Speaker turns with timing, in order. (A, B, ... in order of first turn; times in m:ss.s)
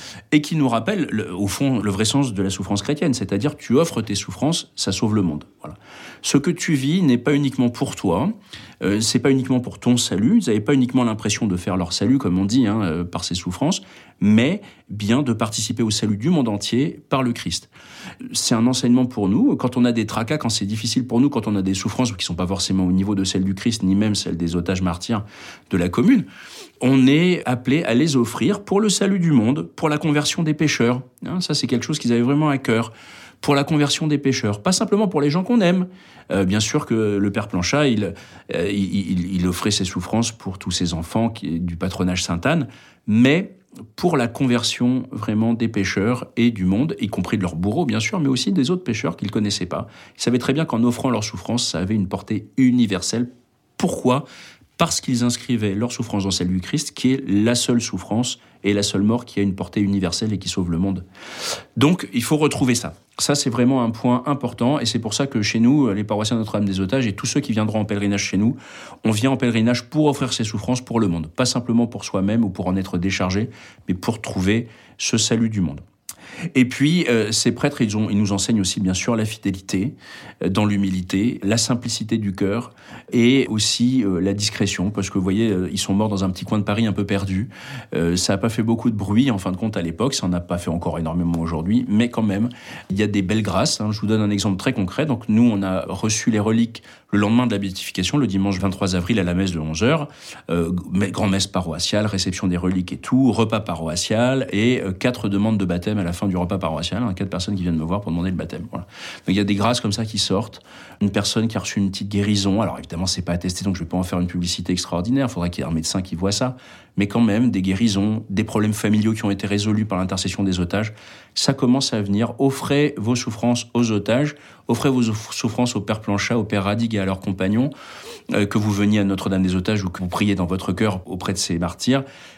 0:00.3-0:17.7 A
0:18.3-0:26.2 A
0:26.8-0:54.2 A
0:54.8-1:01.0 A
1:01.8-1:15.8 A
1:16.5-2:07.7 A
2:08.3-2:12.0 A